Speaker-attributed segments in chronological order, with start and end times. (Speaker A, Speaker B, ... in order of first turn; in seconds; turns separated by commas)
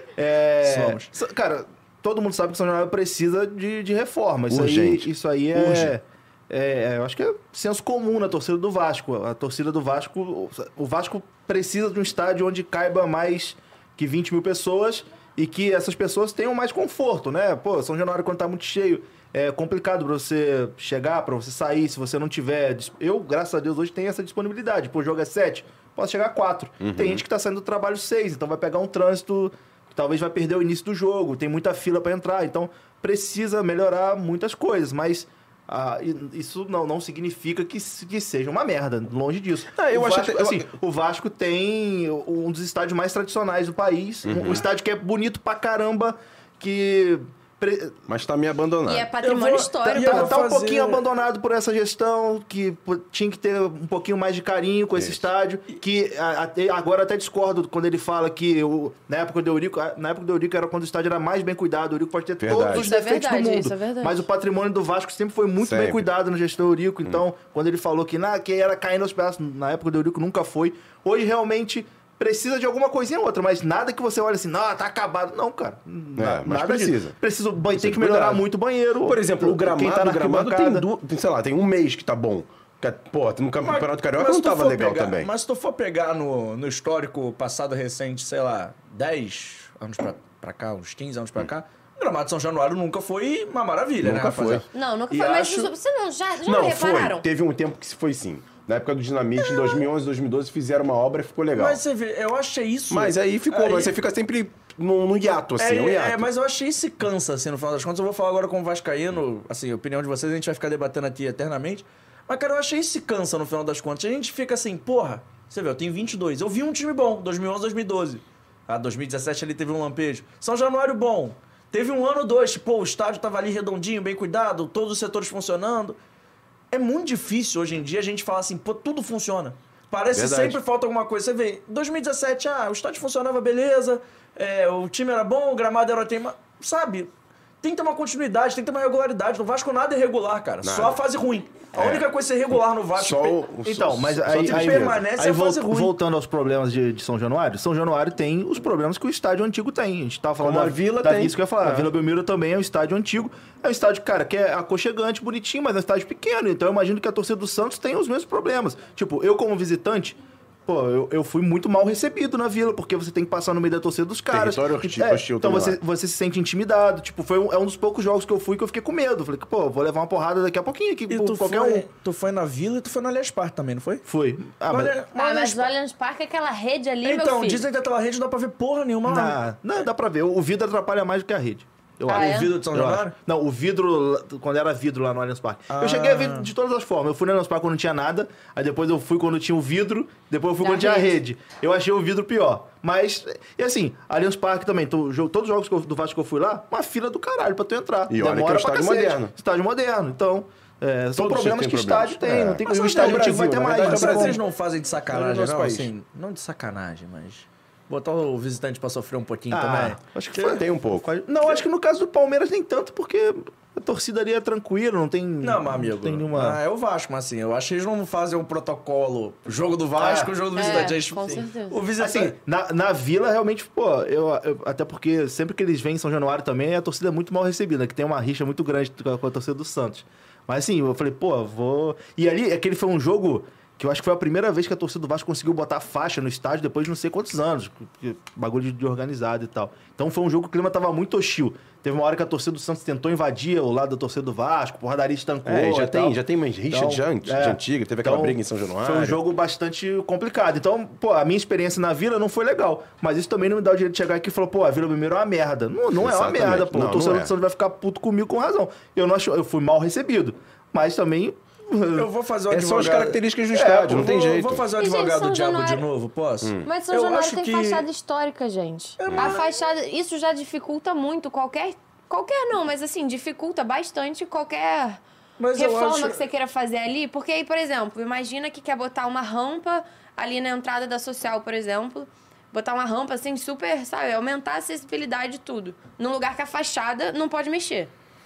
Speaker A: 0.1-48.0, Speaker B: 0.6-1.1, Speaker C: 4.5-5.9, Speaker C: 26.8-27.2, Speaker C: 39.7-40.7, Speaker C: 44.2-44.7, Speaker C: 48.1-49.1, Speaker D: 48.9-50.4, Speaker B: 49.2-51.0, Speaker A: 49.9-80.8, Speaker C: 54.9-55.2, Speaker C: 62.4-62.9, Speaker D: 62.7-64.3, Speaker C: 65.6-66.0, Speaker C: 76.2-77.2, Speaker C: 77.7-78.5, Speaker C: 79.0-85.3, Speaker B: 83.6-95.7, Speaker C: 94.0-94.7, Speaker D: 94.7-97.2, Speaker C: 96.4-101.8, Speaker B: 101.5-103.9, Speaker C: 102.9-106.3, Speaker B: 105.6-126.0, Speaker B: 126.7-137.1, Speaker C: 130.1-130.6, Speaker B: 137.6-143.4, Speaker C: 140.6-141.0, Speaker C: 141.7-142.1, Speaker C: 142.9-145.1, Speaker A: 143.6-171.9, Speaker B: 144.3-146.0, Speaker C: 150.4-151.9, Speaker C: 164.3-165.8, Speaker B: 171.1-174.0, Speaker A: 174.1-175.0, Speaker B: 174.7-175.7, Speaker D: 175.1-177.6, Speaker B: 177.0-179.4, Speaker A: 179.1-204.4, Speaker D: 182.1-182.5, Speaker B: 182.1-183.1, Speaker B: 185.7-186.5, Speaker D: 190.6-191.2, Speaker C: 198.1-199.3, Speaker C: 201.1-204.4, Speaker B: 202.6-210.0, Speaker C: 205.1-205.9, Speaker A: 209.5-216.6, Speaker C: 210.3-211.1, Speaker B: 215.4-222.3, Speaker A: 219.9-221.4, Speaker D: 220.5-221.8, Speaker A: 222.0-246.2, Speaker C: 245.4-249.2, Speaker A: 246.7-262.1, Speaker C: 255.9-257.3, Speaker B: 261.9-263.2, Speaker C: 262.5-264.6, Speaker A: 263.5-264.1, Speaker B: 263.8-267.8, Speaker D: 264.8-265.8, Speaker C: 266.4-266.7, Speaker D: 266.6-275.0, Speaker B: 269.0-269.5, Speaker C: 269.1-269.4, Speaker B: 275.4-276.2, Speaker D: 275.6-287.9